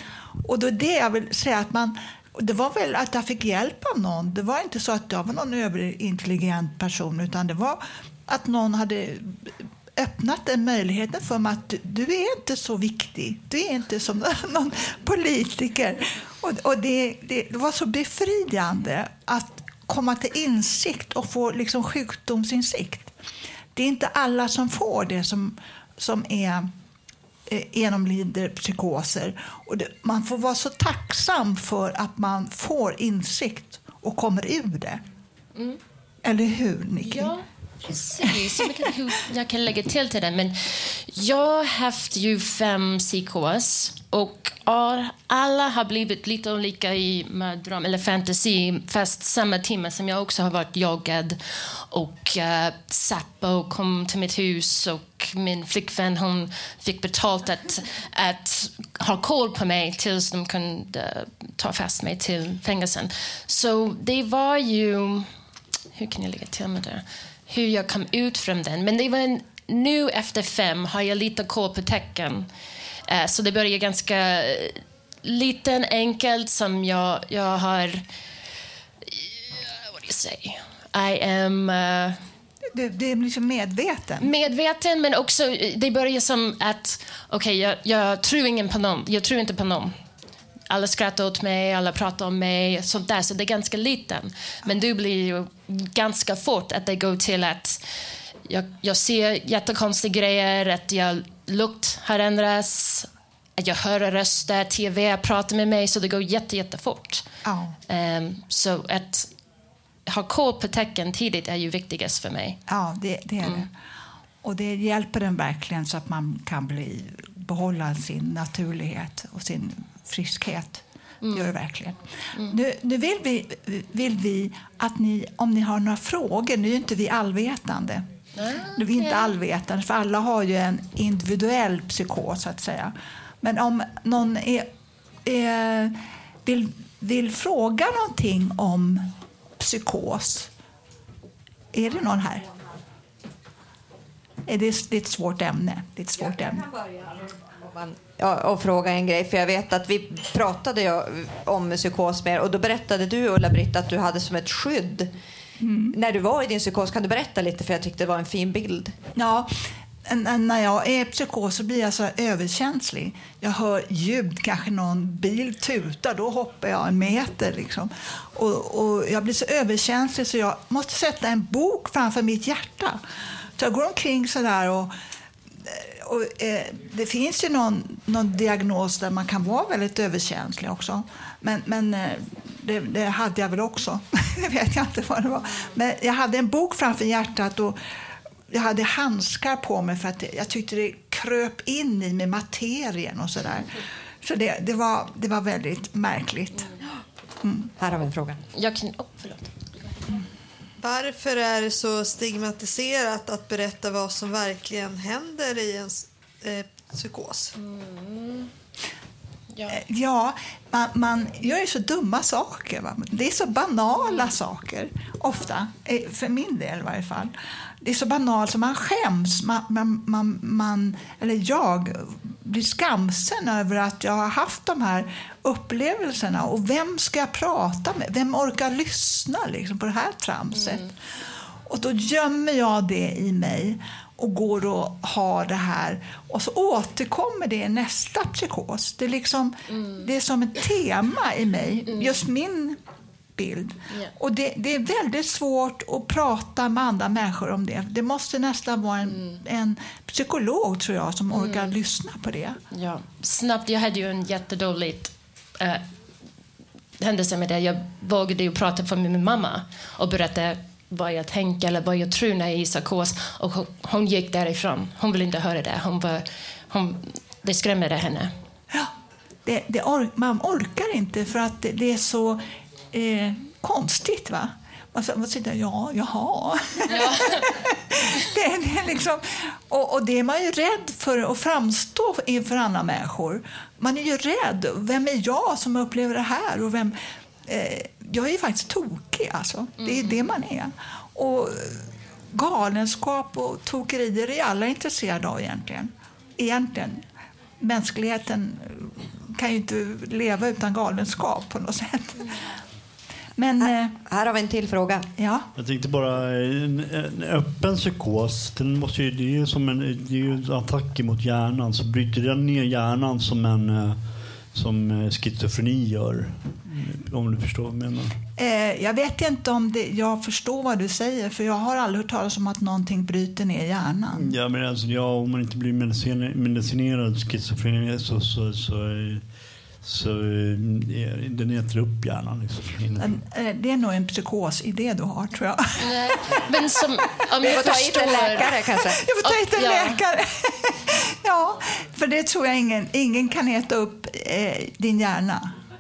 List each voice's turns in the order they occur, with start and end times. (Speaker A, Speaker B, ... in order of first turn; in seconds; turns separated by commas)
Speaker A: 0.4-23.1, Speaker A: 23.8-26.7, Speaker A: 27.5-35.0, Speaker A: 36.2-37.4, Speaker B: 37.0-65.3, Speaker A: 38.2-38.6, Speaker B: 66.0-72.5, Speaker B: 73.1-78.0, Speaker B: 80.0-82.2, Speaker A: 82.7-84.3, Speaker B: 84.2-90.0, Speaker B: 90.7-97.8, Speaker B: 98.5-107.3, Speaker A: 107.5-107.8, Speaker B: 107.9-109.3, Speaker B: 110.1-112.6, Speaker A: 112.7-113.7, Speaker A: 114.4-128.1, Speaker B: 121.2-121.5, Speaker B: 128.4-129.3, Speaker A: 128.6-134.7, Speaker A: 135.2-140.5, Speaker A: 141.7-142.5, Speaker A: 144.5-146.7, Speaker C: 147.7-155.1, Speaker A: 155.6-156.0, Speaker C: 155.9-158.9, Speaker A: 159.2-159.5, Speaker A: 160.1-173.0, Speaker A: 173.6-174.9, Speaker A: 175.6-187.8, Speaker A: 188.5-193.7, Speaker A: 194.2-196.7, Speaker A: 197.4-197.7, Speaker C: 197.8-198.4, Speaker B: 198.6-199.5, Speaker D: 200.8-207.5, Speaker B: 207.6-208.5, Speaker B: 209.5-209.8, Speaker A: 209.7-230.9, Speaker B: 230.5-230.9, Speaker A: 231.7-242.8, Speaker B: 239.7-240.1, Speaker B: 241.9-242.2, Speaker A: 243.4-252.6, Speaker B: 249.0-249.4, Speaker B: 251.3-251.8, Speaker B: 252.7-255.9, Speaker B: 257.0-268.3, Speaker A: 269.4-297.1, Speaker B: 276.9-277.5, Speaker B: 289.8-290.3, Speaker A: 297.6-302.4, Speaker A: 303.4-303.9, Speaker C: 303.6-305.1, Speaker A: 305.2-305.5, Speaker E: 305.6-318.2, Speaker A: 318.4-324.3, Speaker E: 324.1-333.1, Speaker A: 333.0-336.4, Speaker B: 335.8-340.0, Speaker C: 337.4-339.0, Speaker A: 338.0-345.5